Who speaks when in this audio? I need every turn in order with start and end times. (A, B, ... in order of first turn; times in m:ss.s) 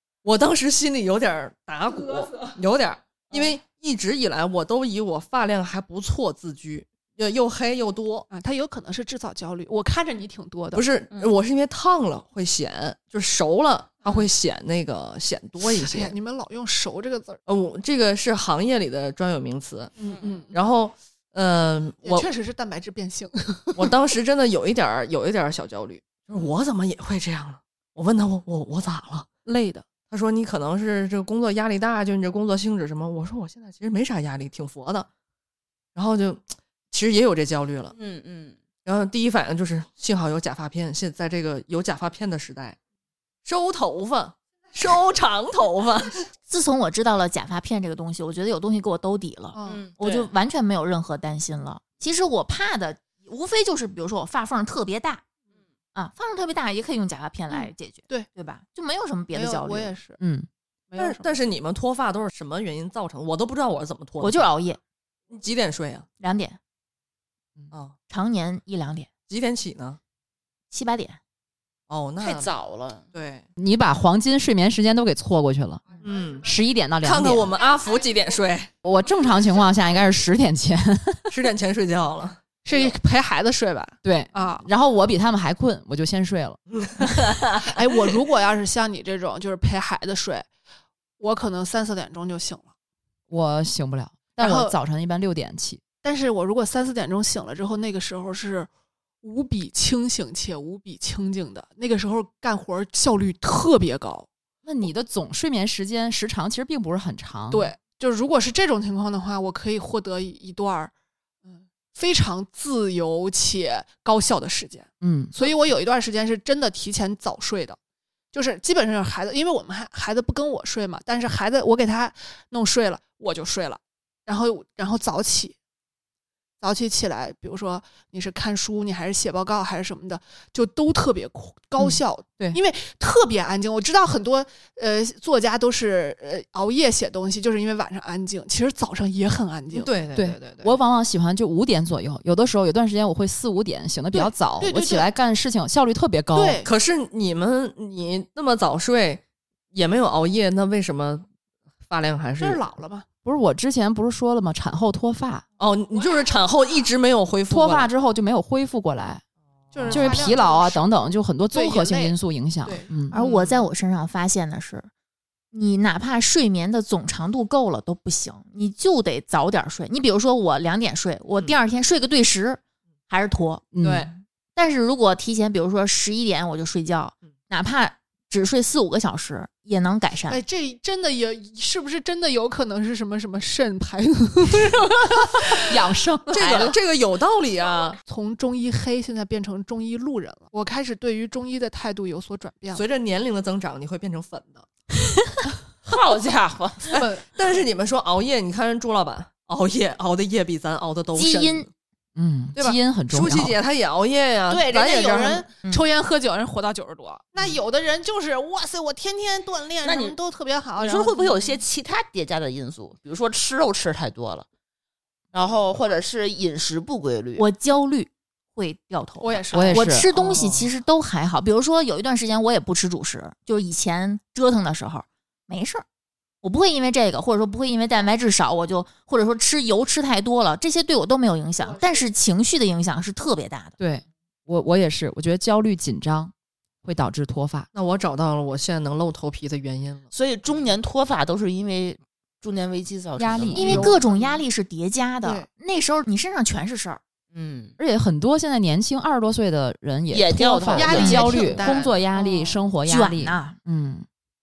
0:00.2-0:08.3 A
0:08.3-0:10.9 B
0:10.7-0:16.2 A
0:15.7-0:17.4 B
0:17.5-0:20.0 A
0:20.0-0:20.5 B
0:20.5-0:22.3 A
0:22.0-0:23.9 B
0:23.8-0:29.3 A
0:29.4-0:29.9 B
0:30.1-0:35.1 A
0:36.0-0:38.0 A
0:38.0-0:38.6 C
0:38.8-0:42.8 A
0:43.4-0:46.2 A
0:46.5-0:55.2 D
0:49.5-0:49.8 B
0:49.6-0:50.3 C
0:56.0-0:59.9 D
0:57.5-0:58.3 B
0:59.3-1:00.2 B
1:00.2-1:00.5 E
1:00.9-1:01.4 B
1:01.0-1:04.5 A
1:04.2-1:04.8 D
1:05.3-1:06.1 A
1:06.2-1:06.6 D
1:08.1-1:09.1 D
1:09.3-1:10.0 A
1:10.7-1:11.2 D
1:11.9-1:12.5 A
1:12.2-1:13.0 C
1:13.1-1:13.4 A
1:13.6-1:15.9 E
1:16.0-1:16.5 A
1:16.4-1:17.5 E
1:17.0-1:18.7 A
1:18.8-1:21.3 E
1:21.3-1:23.0 A
1:22.6-1:24.7 B
1:24.0-1:26.6 E
1:26.7-1:27.7 A
1:27.6-1:30.5 B
1:31.2-1:32.7 B
1:33.3-1:35.8 E
1:34.4-1:34.7 B
1:36.0-1:38.7 B
1:39.2-1:44.3 B
1:44.6-1:47.7 E
1:47.5-1:50.9 B
1:51.5-1:57.8 B
1:55.0-1:55.3 E
1:58.3-2:05.6 B
2:06.6-2:19.9 B
2:11.8-2:12.6 E
2:19.7-2:20.8 A
2:20.2-2:26.6 E
2:24.1-2:25.1 B
2:26.4-2:26.7 B
2:26.6-2:31.3 A
2:31.9-2:32.6 A
2:32.4-2:33.1 B
2:33.2-2:35.4 E
2:35.6-2:37.9 A
2:37.5-2:39.2 E
2:39.7-2:40.9 B
2:39.8-2:40.4 A
2:39.9-2:43.2 E
2:41.5-2:43.4 B
2:43.1-2:44.9 D
2:45.5-2:53.7 D
2:53.7-2:54.1 E
2:53.8-2:54.1 A
2:54.6-3:00.4 D
3:00.3-3:05.7 B
3:05.6-3:06.7 E
3:06.3-3:08.0 A
3:06.4-3:06.7 B
3:08.0-3:12.8 B
3:12.7-3:14.7 A
3:15.9-3:17.0 C
3:16.9-3:21.7 A
3:17.0-3:17.2 B
3:21.2-3:21.7 D
3:22.2-3:23.6 E
3:22.6-3:25.5 A
3:24.5-3:31.3 B
3:29.8-3:30.2 C
3:30.8-3:34.5 C
3:35.3-3:37.4 C
3:37.4-3:45.8 D
3:39.2-3:40.7 B
3:39.5-3:40.1 E
3:46.4-3:53.8 D
3:51.6-3:52.0 B
3:53.8-3:56.3 E
3:56.8-3:57.7 E
3:57.7-4:00.0 A
4:00.1-4:03.9 C
4:03.2-4:04.0 E
4:03.6-4:04.4 B
4:03.6-4:07.0 D
4:07.3-4:07.8 C
4:07.8-4:14.1 E
4:10.1-4:11.7 C
4:10.8-4:12.6 B
4:10.9-4:11.4 D
4:12.8-4:13.6 D